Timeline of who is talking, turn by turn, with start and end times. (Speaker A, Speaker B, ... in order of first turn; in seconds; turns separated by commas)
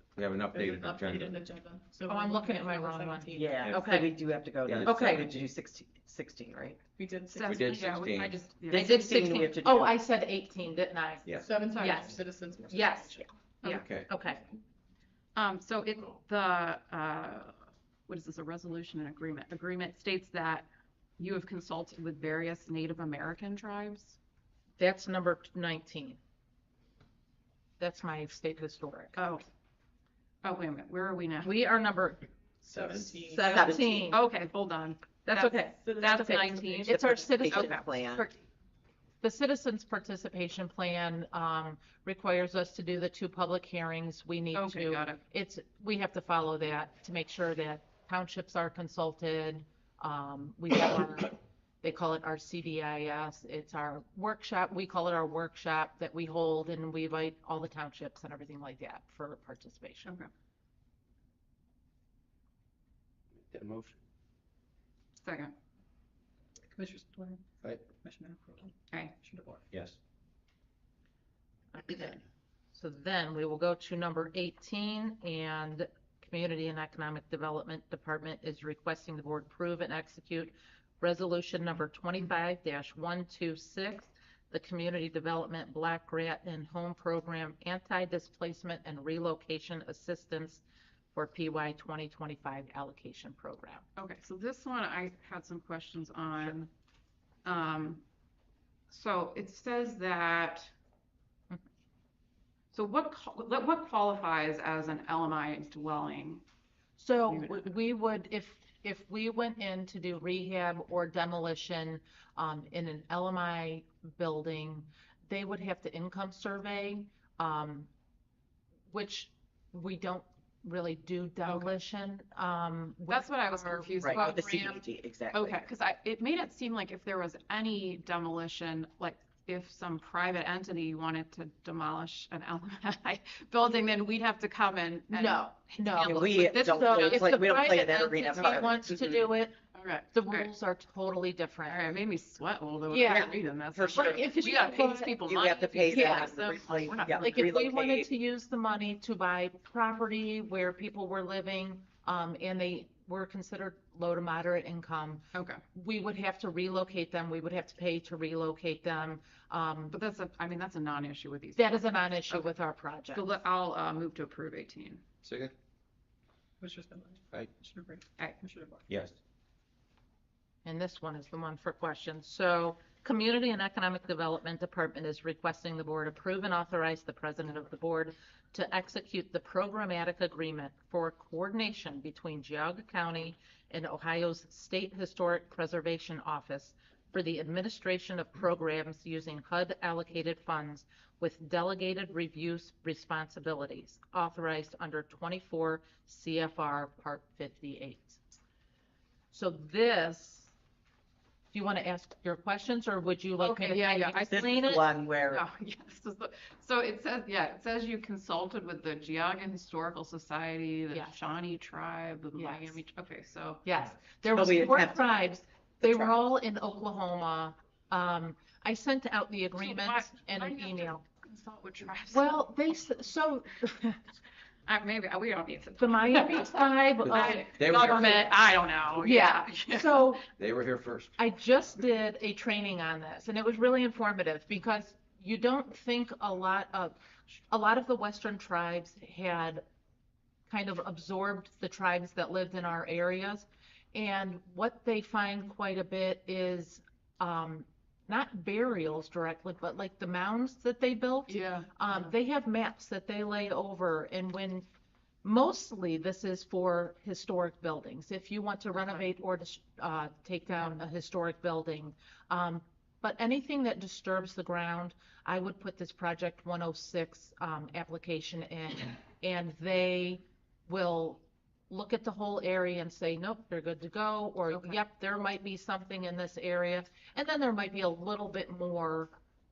Speaker A: 0.2-1.4, Speaker B: 0.4-3.7, Speaker C: 2.1-4.1, Speaker D: 3.4-6.8, Speaker A: 4.7-5.2, Speaker C: 4.8-5.3, Speaker B: 7.0-8.0, Speaker E: 7.3-9.0, Speaker A: 7.4-8.4, Speaker D: 8.5-10.0, Speaker C: 8.7-14.4, Speaker A: 11.2-11.5, Speaker B: 11.4-13.3, Speaker E: 11.7-12.1, Speaker A: 13.7-14.1, Speaker E: 15.4-20.7, Speaker E: 21.2-24.2, Speaker C: 24.8-26.2, Speaker C: 27.8-29.2, Speaker E: 29.1-29.5, Speaker E: 30.4-31.5, Speaker C: 31.4-32.2, Speaker B: 32.6-34.0, Speaker C: 33.0-34.2, Speaker D: 33.5-33.9, Speaker E: 34.1-37.9, Speaker C: 35.3-38.4, Speaker D: 35.5-38.3, Speaker C: 39.2-60.1, Speaker E: 44.5-45.2, Speaker A: 63.5-64.0, Speaker E: 65.2-65.5, Speaker B: 66.7-69.6, Speaker A: 69.7-70.0, Speaker C: 71.7-72.2, Speaker C: 72.7-90.6, Speaker C: 91.1-93.8, Speaker E: 94.0-96.7, Speaker E: 97.5-98.0, Speaker E: 98.9-100.7, Speaker E: 102.7-106.4, Speaker C: 107.0-117.9, Speaker E: 107.3-107.7, Speaker C: 118.9-124.5, Speaker E: 121.5-121.7, Speaker E: 123.1-138.8, Speaker D: 124.0-125.6, Speaker C: 135.1-139.6, Speaker D: 136.0-139.2, Speaker E: 139.7-140.5, Speaker C: 140.1-142.0, Speaker E: 141.7-147.5, Speaker C: 142.9-143.3, Speaker D: 143.0-144.4, Speaker C: 143.9-145.2, Speaker D: 145.2-148.1, Speaker C: 145.9-159.9, Speaker E: 155.3-155.6, Speaker E: 159.9-162.6, Speaker C: 161.6-163.3, Speaker E: 163.1-165.0, Speaker A: 165.2-165.5, Speaker B: 166.6-168.9, Speaker A: 168.9-169.2, Speaker C: 170.7-198.2, Speaker C: 199.3-200.5, Speaker C: 201.5-204.9, Speaker E: 203.4-213.6, Speaker D: 204.3-205.4, Speaker C: 210.9-211.2, Speaker C: 212.4-212.8, Speaker C: 213.7-221.0, Speaker D: 214.3-215.1, Speaker D: 215.8-216.2, Speaker E: 219.6-222.3, Speaker C: 222.1-224.0, Speaker E: 224.7-230.2, Speaker C: 225.8-228.1, Speaker A: 227.1-228.2, Speaker C: 229.0-230.2, Speaker A: 230.4-231.1, Speaker C: 231.2-237.0, Speaker C: 237.5-239.6, Speaker C: 240.5-254.7, Speaker E: 251.3-252.1, Speaker C: 255.2-279.1, Speaker E: 274.5-274.8